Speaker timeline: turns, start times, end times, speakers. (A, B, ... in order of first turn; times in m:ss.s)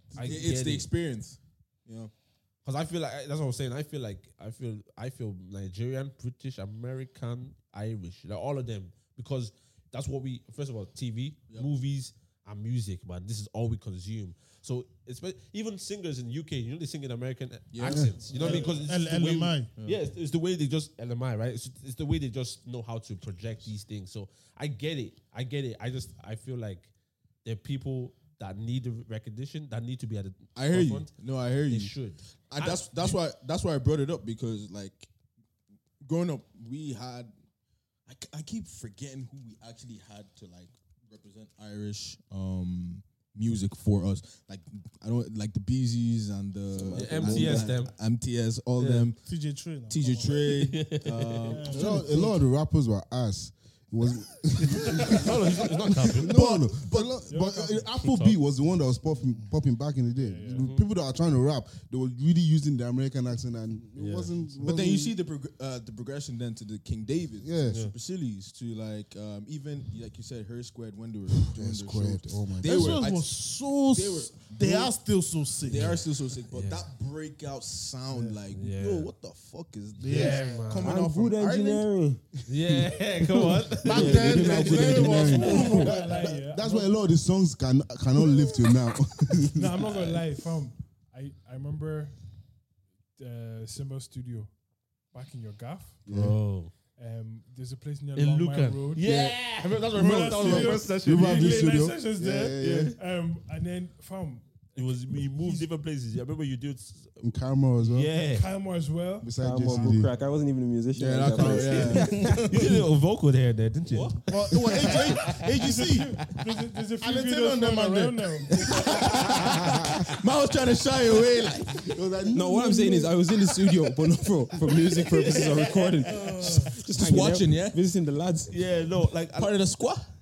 0:00.2-0:00.9 A
0:00.2-0:02.1 B
0:02.6-0:26.9 A
0:17.7-0:18.8 B
0:17.8-0:18.2 C
0:18.3-0:19.7 D
0:27.4-0:31.1 A
0:30.6-0:32.0 B
0:31.7-0:33.2 A
0:32.5-0:35.1 B
0:36.0-0:37.3 B
0:38.1-0:49.2 B
0:46.7-0:47.8 E
0:46.9-0:47.9 A
0:48.8-0:49.1 A
0:49.2-0:50.5 D
0:49.9-0:52.3 B
0:50.5-0:51.6 A
0:51.5-0:52.3 D
0:51.7-1:05.2 C
0:54.6-0:56.4 A
0:56.2-0:57.1 B
0:57.2-0:57.9 F
0:57.9-0:58.4 A
1:00.2-1:00.7 F
1:00.5-1:00.9 A
1:04.0-1:04.3 A
1:04.6-1:14.9 B
1:07.4-1:07.8 C
1:07.7-1:07.9 A
1:11.4-1:13.0 C
1:12.6-1:16.0 D
1:15.6-1:21.8 B
1:16.5-1:16.9 A
1:18.5-1:19.1 A
1:20.0-1:21.0 D
1:20.1-1:21.0 A
1:20.8-1:22.2 E
1:22.5-1:24.7 A
1:23.8-1:26.1 D
1:23.8-1:25.9 E
1:24.0-1:29.8 C
1:24.7-1:27.0 F
1:29.5-1:32.2 F
1:33.2-1:34.5 F
1:35.1-1:36.0 F
1:36.1-1:36.4 C
1:36.1-1:36.7 A
1:37.0-1:39.1 F
1:38.2-1:41.8 A
1:39.9-1:44.5 F
1:40.0-1:43.0 C
1:42.4-1:43.0 A
1:44.8-1:47.2 A
1:45.3-1:45.7 F
1:47.2-1:48.1 C
1:47.8-1:48.5 A
1:48.2-1:50.0 F
1:49.2-1:50.1 C
1:49.4-1:52.5 E
1:51.0-1:52.3 B
1:51.7-1:55.5 A
1:52.0-1:52.8 D
1:54.3-1:58.4 D
1:55.2-1:58.6 F
1:58.5-2:01.9 B
1:59.1-1:59.9 A
2:01.8-2:03.2 C
2:02.3-2:08.6 E
2:05.0-2:06.2 A
2:06.0-2:06.7 D
2:06.9-2:07.8 B
2:08.5-2:09.6 A
2:09.4-2:10.1 B